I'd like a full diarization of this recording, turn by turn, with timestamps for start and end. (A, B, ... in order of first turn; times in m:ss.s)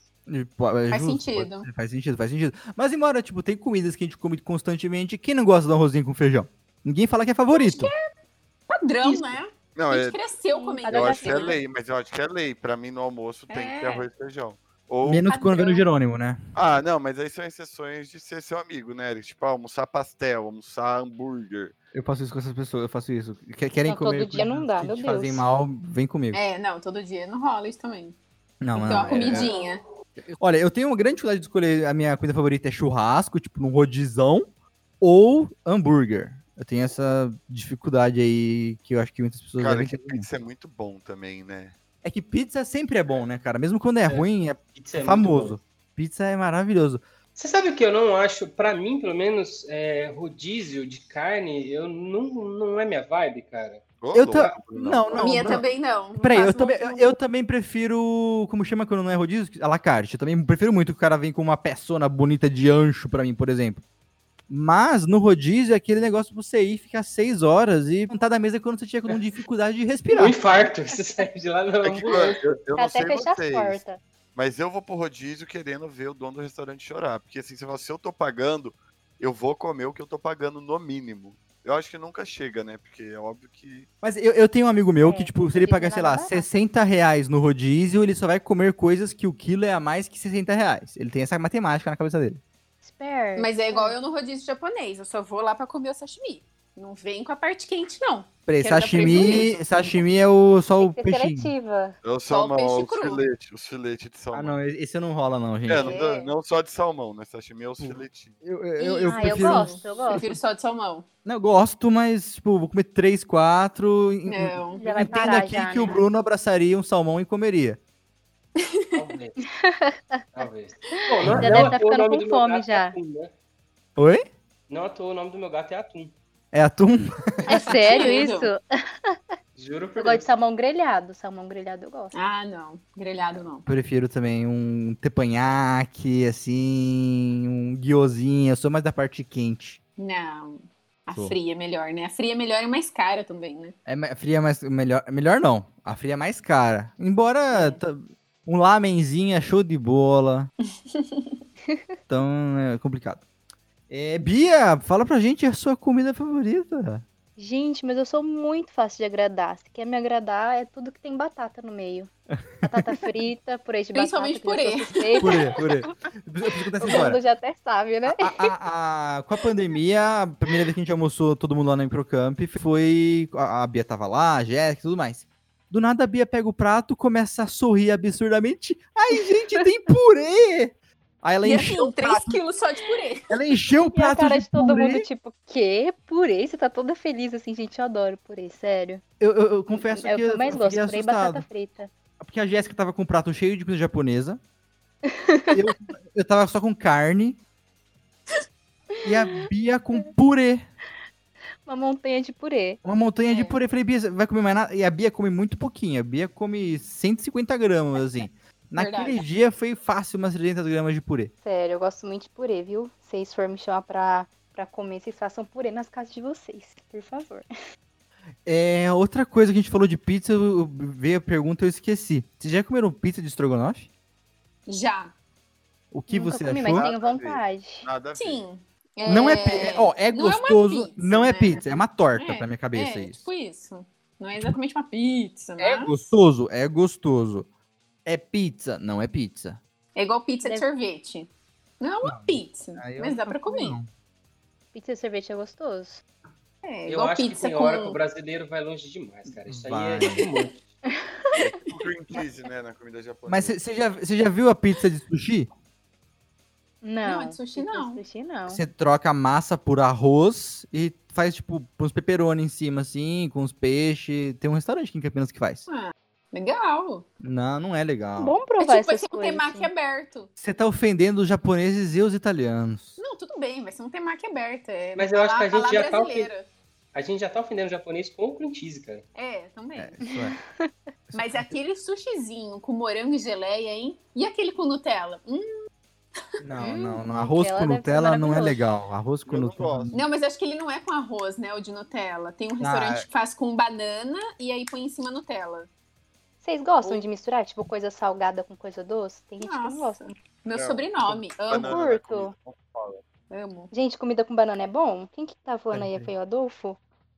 0:00.3-0:07.9 A
0:00.9-0:01.7 B
0:07.5-0:08.0 B
0:08.7-0:11.6 B
0:09.7-0:10.2 C
0:10.5-0:11.6 D
0:10.8-0:15.3 C
0:13.5-0:14.1 B
0:15.0-0:16.4 A
0:15.3-0:15.8 B
0:16.5-0:21.7 C
0:21.9-0:26.4 A
0:23.8-0:25.4 D
0:26.3-0:28.2 B
0:28.6-0:29.5 A
0:28.7-0:29.8 B
0:30.3-0:34.5 A
0:35.0-0:40.2 A
0:39.6-0:41.7 C
0:42.0-0:47.0 A
0:44.1-0:45.6 E
0:47.4-0:54.6 E
0:54.0-0:55.5 C
0:54.1-0:55.6 A
0:55.2-0:57.1 B
0:56.2-1:03.8 A
1:04.5-1:10.5 A
1:10.1-1:12.5 E
1:11.8-1:13.8 C
1:12.8-1:14.0 D
1:14.3-1:23.9 C
1:24.0-1:32.4 A
1:25.0-1:26.4 D
1:32.8-1:34.0 D
1:33.4-1:39.9 B
1:38.5-1:41.5 A
1:40.8-1:42.0 D
1:42.0-1:44.5 C
1:42.3-1:43.2 B
1:44.3-1:46.0 A
1:45.7-1:48.4 C
1:45.7-1:46.3 B
1:47.8-1:50.4 A
1:48.8-1:51.0 B
1:49.0-1:50.2 D
1:51.2-1:57.8 A
1:54.3-1:54.9 B
1:54.8-1:56.0 D
1:58.9-1:59.4 E
1:59.4-2:00.2 D
2:00.3-2:03.3 E
2:01.2-2:01.8 A
2:01.3-2:03.0 D
2:04.0-2:04.2 A
2:04.7-2:06.1 E
2:06.5-2:08.0 A
2:07.5-2:09.2 D
2:07.6-2:08.5 B
2:09.6-2:10.3 E
2:10.0-2:12.1 D
2:12.1-2:13.6 B
2:13.6-2:19.8 A
2:20.0-2:23.7 B
2:23.8-2:30.5 A
2:27.5-2:27.8 B
2:30.9-2:31.4 B
2:32.1-2:33.2 A
2:33.9-2:37.0 A
2:37.4-2:42.1 D
2:42.4-2:42.7 A
2:42.6-2:45.6 D
2:43.9-2:45.5 B
2:45.2-2:47.2 A
2:46.8-2:48.5 D
2:48.1-3:02.4 A
3:01.4-3:03.3 B
3:03.3-3:05.0 A
3:03.9-3:09.0 D
3:09.2-3:11.4 A
3:09.7-3:11.9 D
3:12.2-3:14.4 A
3:15.0-3:15.6 D
3:15.5-3:17.4 A
3:19.0-3:19.4 D
3:19.0-3:20.6 A
3:21.6-3:22.8 D
3:22.8-3:31.3 A
3:23.3-3:23.6 B
3:28.8-3:29.2 B
3:31.4-3:37.5 D
3:38.4-3:43.9 A
3:44.7-3:45.1 B
3:45.9-3:46.9 A
3:46.1-3:47.9 D
3:46.6-3:48.4 C
3:48.2-3:55.9 B
3:49.0-3:53.2 A
3:55.6-3:57.5 A
3:58.0-3:59.6 A
4:00.0-4:01.3 B
4:01.8-4:03.8 B
4:02.0-4:03.9 A
4:04.7-4:06.0 D
4:06.6-4:08.0 B
4:06.9-4:10.6 E
4:09.5-4:10.2 A
4:11.4-4:13.6 C
4:13.3-4:15.5 A
4:16.8-4:18.6 D
4:17.0-4:18.0 B
4:18.5-4:25.7 A
4:25.7-4:27.0 B
4:27.2-4:28.4 A
4:28.2-4:29.7 D
4:28.6-4:30.3 B
4:30.4-4:33.0 A
4:33.0-4:36.5 B
4:35.0-4:36.3 E
4:36.9-4:39.0 E
4:39.1-4:40.0 B
4:39.8-4:40.4 A
4:40.1-4:40.7 D
4:41.1-4:41.5 A
4:41.1-4:45.5 B
4:46.4-4:50.0 A
4:46.6-4:48.6 D
4:49.3-4:50.0 C
4:49.9-4:55.7 B
4:52.6-4:53.0 A
4:56.4-5:00.1 D
4:59.4-5:01.8 B
5:00.5-5:03.0 C
5:01.6-5:02.3 D
5:03.3-5:03.7 B
5:03.7-5:06.8 D
5:05.7-5:06.1 A